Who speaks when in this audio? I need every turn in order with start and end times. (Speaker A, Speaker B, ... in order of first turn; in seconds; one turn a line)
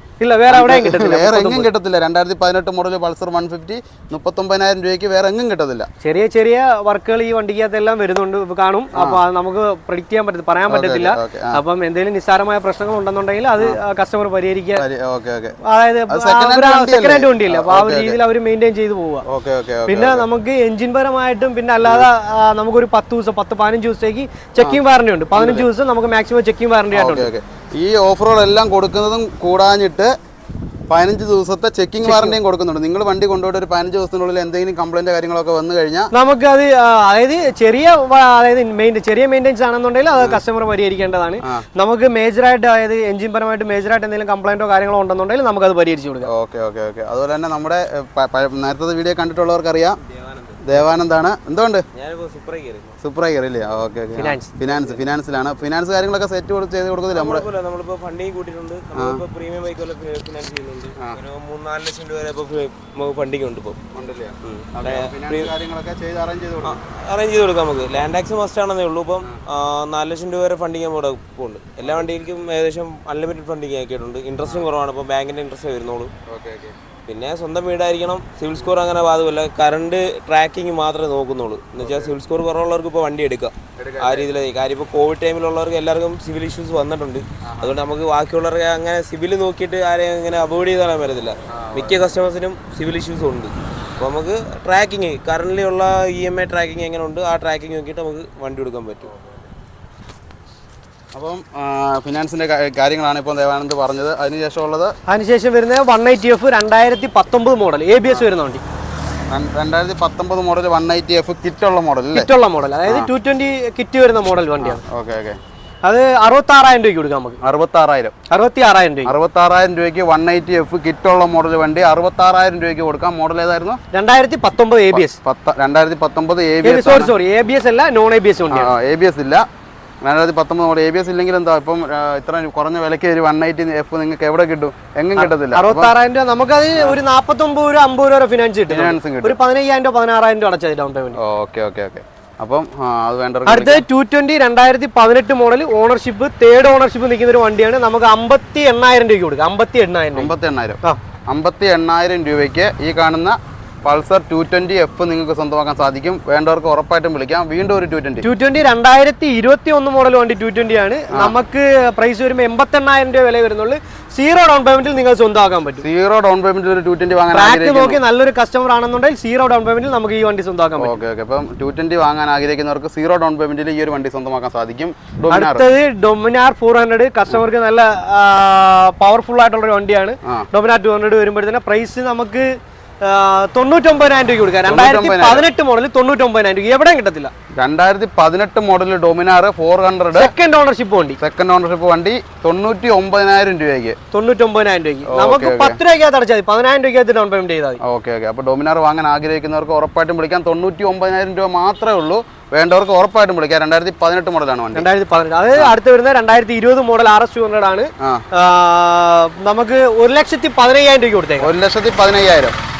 Speaker A: 0.2-1.7
Speaker B: 0.5-5.9
Speaker A: 6.0-14.8
Speaker B: 8.9-9.2
Speaker B: 10.7-11.6
Speaker B: 14.8-15.6
Speaker A: 15.6-19.2
Speaker B: 16.1-18.2
Speaker B: 19.2-20.2
Speaker A: 19.9-27.3
Speaker B: 21.8-22.1
Speaker B: 25.4-25.7
Speaker B: 26.9-30.1
Speaker B: 30.9-36.1
Speaker A: 32.0-32.4
Speaker A: 36.1-46.3
Speaker B: 46.2-50.0
Speaker C: 50.0-50.6
Speaker B: 50.6-51.9
Speaker C: 51.9-53.0
Speaker B: 53.0-57.5
Speaker A: 54.2-54.5
Speaker C: 54.6-55.0
Speaker C: 57.1-63.8
Speaker B: 58.9-59.2
Speaker B: 63.9-66.8
Speaker C: 64.4-65.5
Speaker C: 66.6-76.1
Speaker B: 76.3-76.7
Speaker C: 77.1-99.1
Speaker B: 81.8-82.1
Speaker B: 83.8-84.3
Speaker B: 87.4-87.8
Speaker B: 91.5-92.0
Speaker B: 101.1-104.9
Speaker A: 105.1-108.6
Speaker B: 109.3-112.3
Speaker A: 112.1-114.8
Speaker B: 114.6-115.4
Speaker A: 115.8-117.4
Speaker B: 117.4-118.1
Speaker A: 118.3-119.1
Speaker B: 119.0-123.8
Speaker A: 123.9-125.2
Speaker B: 124.9-127.1
Speaker A: 126.6-128.7
Speaker B: 128.5-129.4
Speaker B: 130.0-135.9
Speaker A: 135.2-141.2
Speaker B: 138.7-139.4
Speaker B: 141.2-143.8
Speaker A: 143.5-150.3
Speaker B: 150.1-150.8
Speaker B: 151.3-158.2
Speaker A: 158.2-165.8
Speaker B: 165.8-168.0
Speaker A: 167.3-170.9
Speaker B: 170.8-175.6
Speaker A: 175.3-187.3
Speaker B: 184.7-185.4
Speaker B: 187.6-190.3
Speaker A: 190.1-191.2
Speaker B: 191.2-194.0
Speaker A: 194.1-197.8
Speaker B: 195.1-195.8
Speaker B: 197.8-204.9
Speaker A: 204.7-211.5
Speaker B: 208.0-208.2
Speaker B: 211.4-212.5